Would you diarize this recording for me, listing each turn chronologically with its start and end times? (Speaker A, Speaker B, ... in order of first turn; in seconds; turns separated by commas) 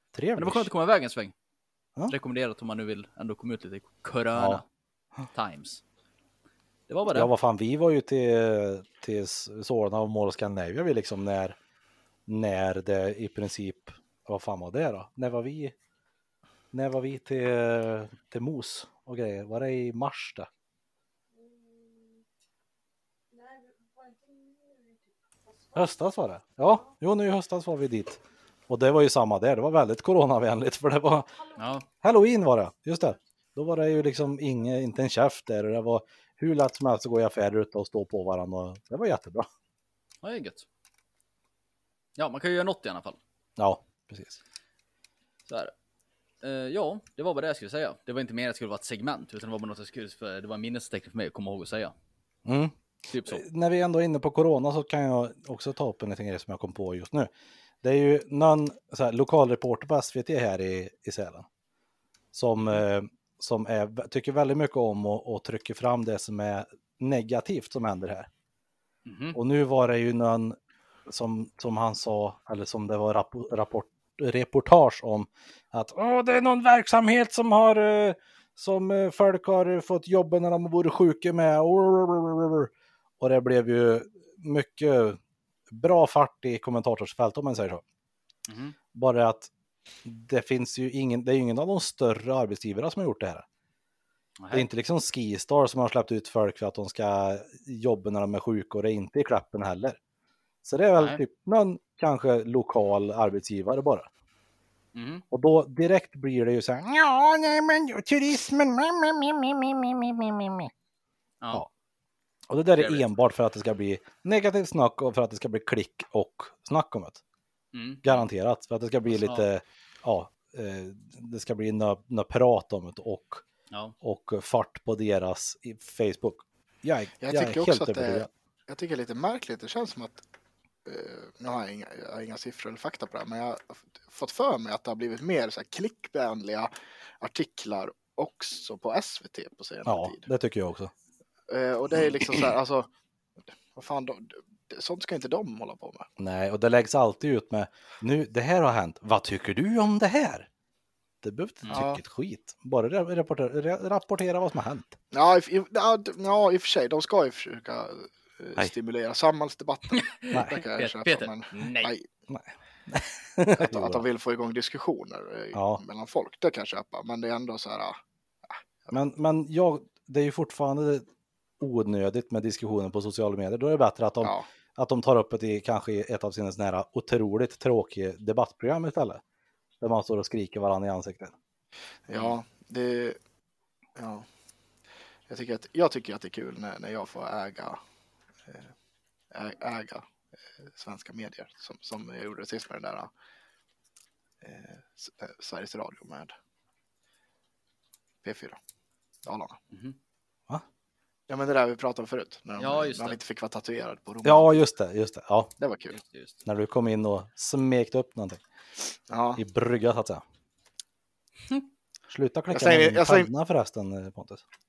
Speaker A: 0.1-0.7, Speaker B: 0.3-1.3, Speaker B: 2.1-4.6, Speaker A: 4.3-4.6, Speaker B: 5.3-5.8, Speaker B: 6.9-7.3, Speaker A: 7.1-11.6, Speaker A: 12.3-15.7, Speaker A: 16.7-20.5, Speaker A: 25.7-31.3, Speaker B: 31.6-31.9, Speaker A: 32.0-39.5, Speaker B: 40.2-40.6, Speaker B: 42.2-43.2, Speaker A: 43.6-44.4, Speaker B: 45.5-45.7, Speaker B: 46.4-51.9, Speaker A: 52.5-57.3, Speaker B: 53.1-53.4, Speaker A: 57.8-61.5, Speaker A: 62.3-68.3, Speaker B: 69.0-69.4, Speaker A: 69.3-85.2, Speaker A: 85.7-87.8, Speaker B: 88.5-88.8, Speaker A: 88.9-89.5, Speaker A: 90.0-93.4, Speaker B: 94.4-94.7, Speaker A: 94.5-100.0, Speaker A: 100.6-104.1, Speaker B: 104.9-105.2, Speaker A: 105.3-110.7, Speaker A: 112.5-117.2, Speaker B: 112.8-113.0, Speaker B: 117.7-118.2, Speaker A: 118.0-123.4, Speaker A: 124.0-128.3, Speaker C: 127.2-130.2, Speaker C: 130.8-140.2, Speaker A: 139.8-140.9, Speaker C: 141.5-142.9, Speaker C: 143.7-146.1, Speaker A: 146.2-150.5, Speaker A: 151.2-154.9, Speaker C: 151.7-152.0, Speaker C: 155.1-162.1, Speaker B: 159.9-161.9, Speaker A: 162.3-164.0, Speaker C: 163.6-168.0, Speaker A: 165.5-165.8, Speaker C: 168.5-168.9, Speaker A: 168.9-171.1, Speaker A: 171.6-179.2, Speaker C: 174.2-174.5, Speaker A: 179.8-181.3, Speaker C: 182.1-183.2, Speaker C: 184.0-184.2, Speaker C: 185.3-187.8, Speaker C: 188.5-188.7, Speaker C: 189.3-190.1, Speaker C: 190.6-193.1, Speaker C: 194.4-196.3, Speaker C: 198.2-198.6, Speaker C: 199.2-199.6, Speaker B: 199.7-199.9, Speaker C: 201.3-204.6, Speaker B: 202.6-203.2, Speaker A: 204.2-205.5, Speaker C: 205.6-206.0, Speaker B: 205.9-206.3, Speaker A: 206.4-208.4, Speaker C: 209.1-209.4, Speaker A: 209.3-210.2, Speaker A: 212.1-214.4, Speaker C: 212.5-213.3